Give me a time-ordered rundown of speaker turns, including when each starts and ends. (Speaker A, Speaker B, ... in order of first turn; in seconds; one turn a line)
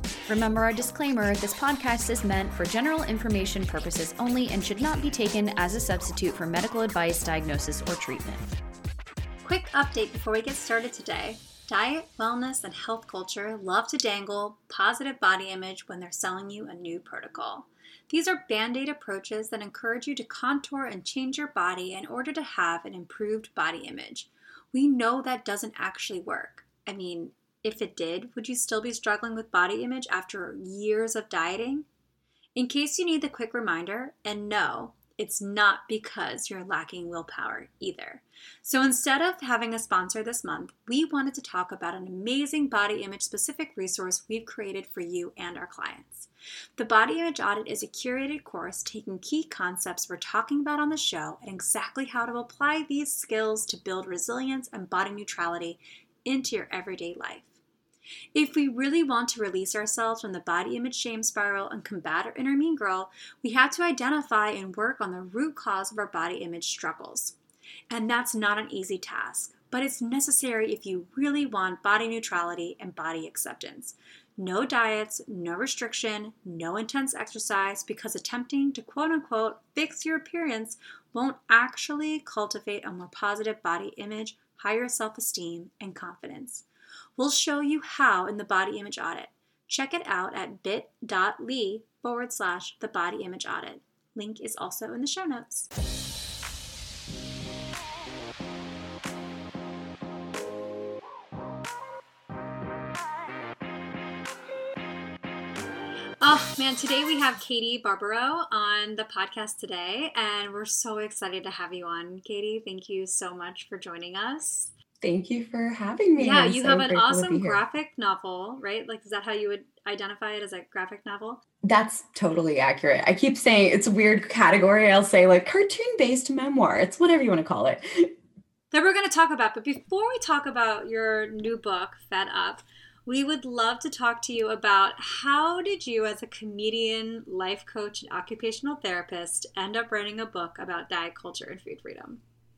Speaker A: 0.3-8.5
Speaker B: 9.4-31.9
Speaker B: 32.5-57.5
Speaker B: 58.3-67.3
Speaker B: 67.9-95.7
Speaker B: 106.2-114.7
Speaker C: 115.0-117.6
Speaker B: 116.2-121.4
Speaker C: 121.6-128.1
Speaker B: 128.7-142.2